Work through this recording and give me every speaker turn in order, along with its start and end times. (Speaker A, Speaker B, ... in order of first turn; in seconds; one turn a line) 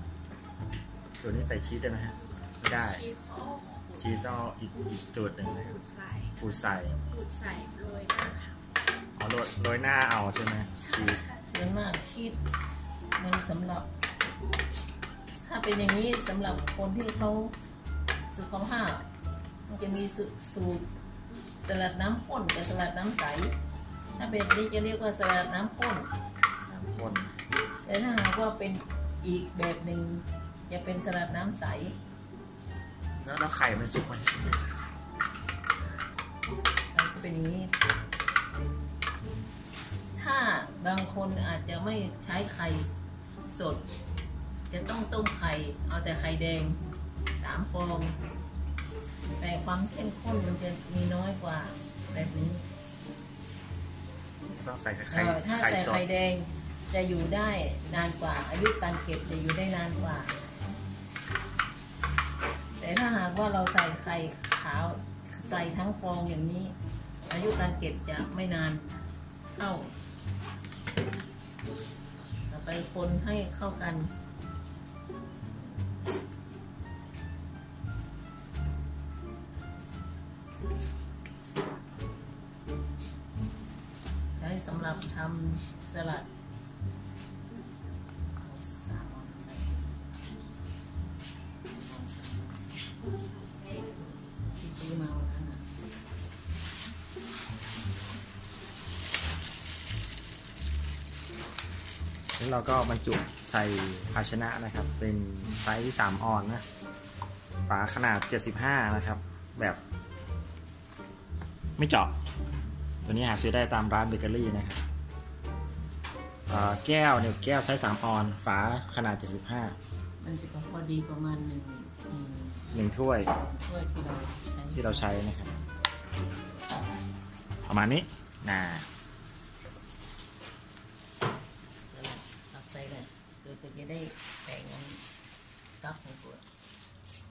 Speaker A: 1.2-3.0
Speaker B: 3.1-4.0
Speaker A: 4.0-5.8
Speaker B: 5.7-6.4
Speaker A: 6.4-7.0
Speaker B: 7.0-8.6
Speaker A: 9.2-11.2
Speaker B: 10.9-11.4
Speaker C: 11.5-12.4
Speaker C: 13.2-13.9
Speaker C: 15.3-17.6
Speaker C: 18.3-19.1
Speaker C: 19.6-20.9
Speaker C: 21.6-23.5
Speaker C: 24.2-26.1
Speaker A: 26.7-27.4
Speaker C: 27.9-31.9
Speaker A: 33.2-34.7
Speaker C: 36.9-37.7
Speaker C: 40.2-43.0
Speaker C: 43.5-43.8
Speaker C: 44.7-46.8
Speaker C: 47.4-48.1
Speaker C: 49.4-52.6
Speaker A: 54.5-56.1
Speaker C: 55.1-60.3
Speaker C: 62.8-66.8
Speaker C: 67.2-69.0
Speaker C: 69.6-69.9
Speaker C: 72.5-74.1
Speaker C: 75.5-75.8
Speaker C: 84.4-86.3
Speaker C: 88.4-90.0
Speaker C: 91.7-92.6
Speaker C: 93.7-95.7
Speaker A: 102.4-106.6
Speaker A: 107.7-109.8
Speaker A: 111.8-112.1
Speaker A: 113.0-114.8
Speaker A: 116.5-119.8
Speaker C: 120.2-125.1
Speaker A: 122.7-123.3
Speaker A: 124.8-125.5
Speaker A: 127.7-128.9
Speaker C: 131.9-135.0
Speaker C: 135.8-136.4